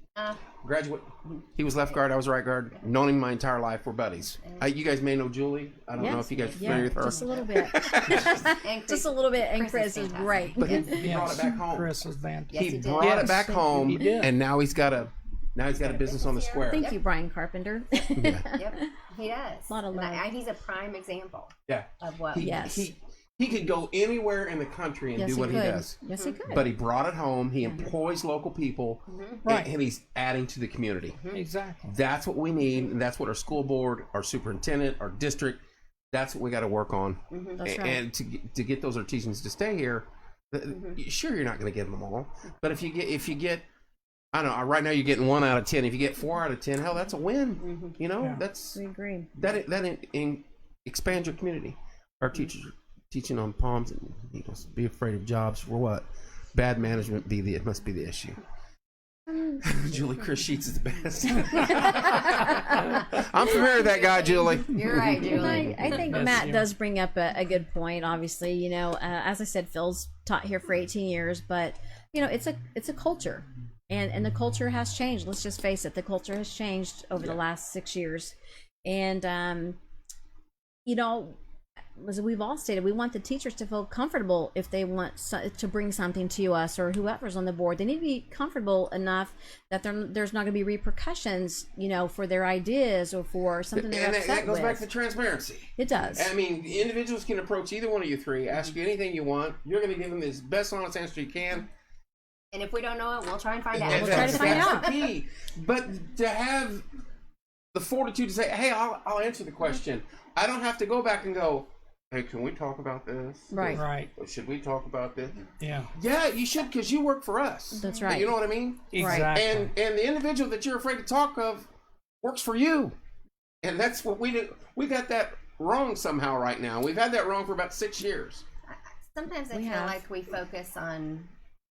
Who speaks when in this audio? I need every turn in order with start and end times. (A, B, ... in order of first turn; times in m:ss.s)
0:00.2-0:00.4 A
0:00.6-0:08.4 B
0:01.3-0:02.0 A
0:04.4-0:04.7 A
0:06.0-0:07.5 A
0:06.0-0:11.0 C
0:08.1-0:11.1 A
0:10.6-0:16.9 B
0:11.0-0:14.3 D
0:12.5-0:13.4 A
0:13.4-0:14.2 C
0:15.7-0:17.0 A
0:16.7-0:18.9 C
0:18.2-0:18.4 B
0:18.5-0:22.5 A
0:19.7-0:20.3 C
0:21.7-0:26.0 B
0:22.4-0:22.9 C
0:25.2-0:26.7 C
0:26.1-0:26.4 A
0:26.5-0:31.2 B
0:29.1-0:29.4 A
0:29.4-0:29.7 D
0:31.1-0:31.4 A
0:31.3-0:32.0 D
0:31.8-0:35.6 B
0:36.1-0:43.6 B
0:37.3-0:37.6 A
0:37.6-0:38.0 C
0:40.7-0:41.0 A
0:44.3-0:48.8 B
0:47.6-0:48.0 A
0:48.7-0:49.3 C
0:49.3-0:58.4 B
0:59.3-0:59.6 C
0:59.6-1:05.8 B
1:01.6-1:02.6 C
1:03.8-1:06.0 A
1:05.2-1:19.8 C
1:06.0-1:06.7 D
1:20.8-1:21.4 C
1:22.0-1:34.9 C
1:33.7-1:41.7 B
1:35.8-1:36.3 C
1:42.5-1:45.1 A
1:43.7-1:46.8 B
1:43.9-1:44.9 C
1:44.0-1:44.3 D
1:47.7-2:01.7 B
1:53.5-1:53.8 C
1:53.7-1:54.1 D
1:55.6-1:55.9 D
1:57.8-1:58.4 C
1:58.9-1:59.7 D
1:59.0-1:59.3 C
2:02.2-2:02.9 B
2:03.6-2:08.4 B
2:08.7-2:11.3 A
2:09.5-2:10.0 C